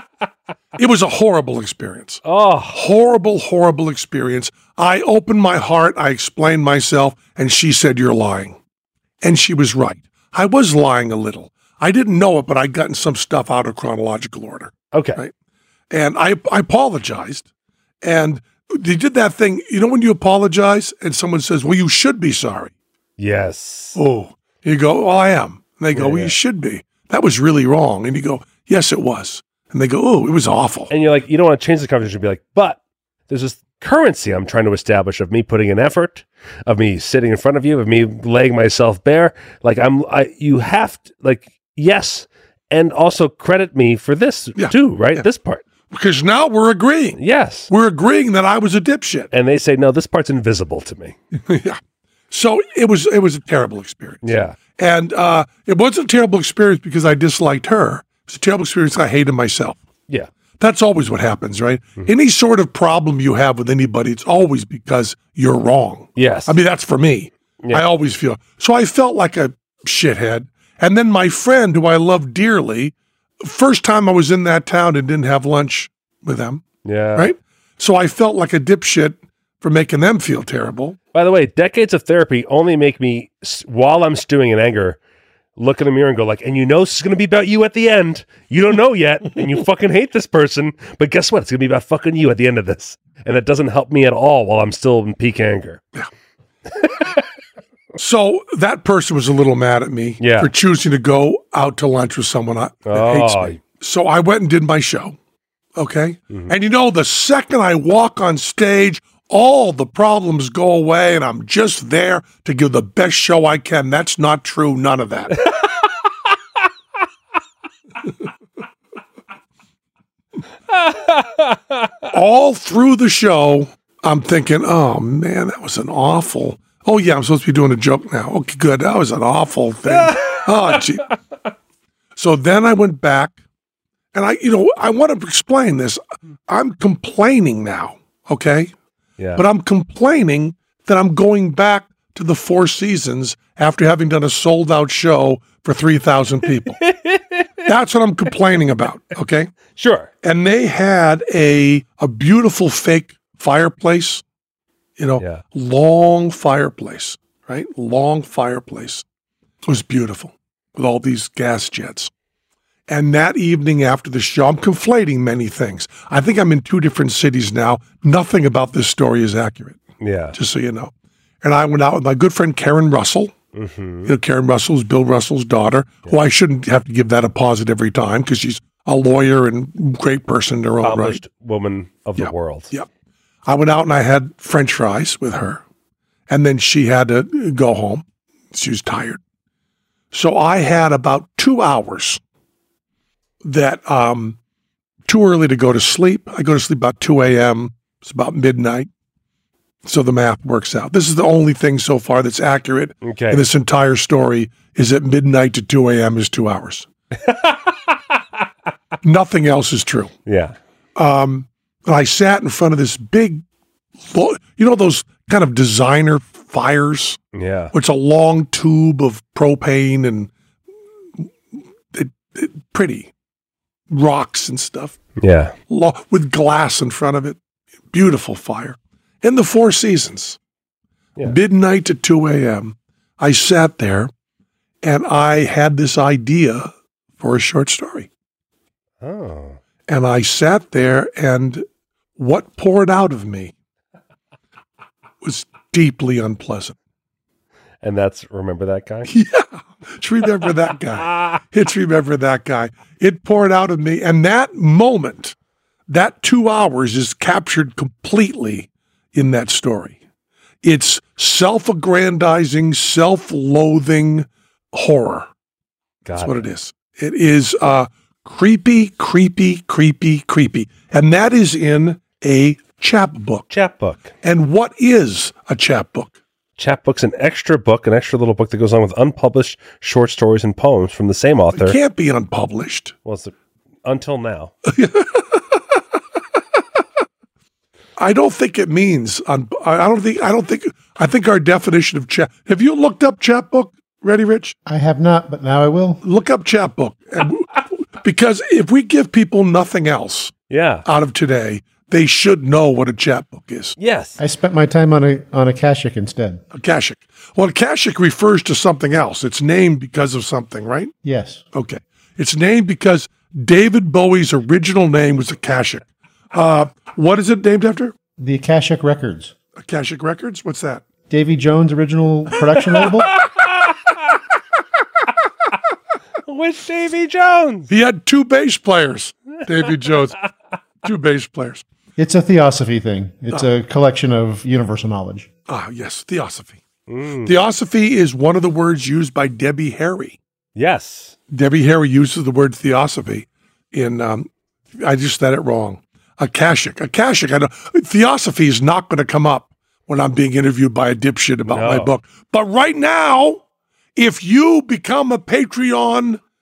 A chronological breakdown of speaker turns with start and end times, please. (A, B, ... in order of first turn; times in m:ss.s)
0:00.8-0:08.6 A
0:02.2-0:02.7 B
0:09.2-0:15.3 A
0:14.9-0:15.2 B
0:15.9-0:17.5 A
0:18.0-0:22.7 A
0:23.2-0:24.0 B
0:23.9-0:30.9 A
0:25.9-0:26.3 B
0:30.9-0:45.6 B
0:44.6-0:45.2 A
0:45.9-0:49.3 A
0:47.2-0:47.7 B
0:49.3-0:51.2 B
0:51.3-0:51.8 A
0:52.3-0:59.8 A
0:54.2-0:54.6 B
1:00.6-1:16.6 A
1:06.2-1:06.6 B
1:16.8-1:17.3 B
1:17.1-1:21.0 A
1:21.1-1:25.0 B
1:25.6-1:35.8 B
1:36.8-1:37.2 B
1:38.0-1:45.2 A
1:40.2-1:40.5 B
1:42.9-1:43.6 B
1:45.8-1:55.4 A
2:00.7-2:01.9 B
2:02.1-2:11.1 A
2:09.9-2:10.8 B
2:12.2-2:13.4 A
2:14.1-2:18.7 A
2:19.4-2:26.8 A
2:26.8-2:27.5 B
2:27.6-2:29.5 A
2:29.8-2:30.1 B
2:30.2-2:34.2 A
2:35.0-2:39.0 A
2:39.6-2:42.1 A
2:42.9-2:49.8 A
2:50.0-2:50.4 B
2:50.3-2:50.9 A
2:51.4-2:53.3 A
2:53.5-2:54.1 B
2:54.0-3:01.2 A
3:00.8-3:02.7 B
3:02.2-3:02.9 A
3:03.4-3:05.6 A
3:06.3-3:09.2 A
3:10.1-3:12.2 A
3:13.4-3:14.4 A
3:15.1-3:18.9 A
3:19.8-3:26.9 A
3:23.0-3:23.4 B
3:27.2-3:27.7 B
3:29.0-3:30.1 A
3:30.2-3:30.5 B
3:31.0-3:33.4 A
3:34.0-3:37.2 A
3:37.3-3:37.7 B
3:37.7-3:40.3 A
3:41.9-3:43.1 A
3:43.9-3:45.0 A
3:45.2-3:45.5 B
3:45.7-3:47.4 A
3:47.9-3:50.4 A
3:51.2-3:54.1 A
3:54.8-3:58.1 A
3:59.0-3:59.6 B
3:59.9-4:01.6 A
4:02.2-4:03.5 A
4:05.2-4:06.8 A
4:07.8-4:09.1 B
4:09.1-4:15.3 A
4:15.9-4:20.0 A
4:20.6-4:25.3 A
4:26.0-4:26.4 B
4:26.2-4:33.5 A
4:33.5-4:34.1 B
4:34.2-4:36.1 A
4:36.6-4:41.8 B
4:41.5-4:42.9 A
4:43.0-4:43.3 B
4:43.8-4:44.5 B
4:44.7-4:45.4 A
4:48.0-4:54.6 A
4:54.6-4:56.0 C
4:56.0-5:00.3 A
5:00.5-5:00.8 B
5:00.8-5:03.8 A
5:03.8-5:04.2 B
5:04.2-5:06.4 C
5:06.5-5:10.9 A
5:11.0-5:11.4 C
5:11.5-5:17.9 A
5:18.2-5:19.3 C
5:19.6-5:20.8 A
5:21.1-5:23.1 C
5:23.0-5:23.7 B
5:26.3-5:27.7 B
5:27.7-5:30.2 A
5:30.8-5:31.6 A
5:32.0-5:35.3 C
5:35.5-5:36.6 A
5:36.9-5:37.3 B
5:37.2-5:40.2 A
5:40.6-5:41.2 B
5:41.3-5:53.4 A
5:51.5-5:51.9 B
5:54.0-5:56.2 A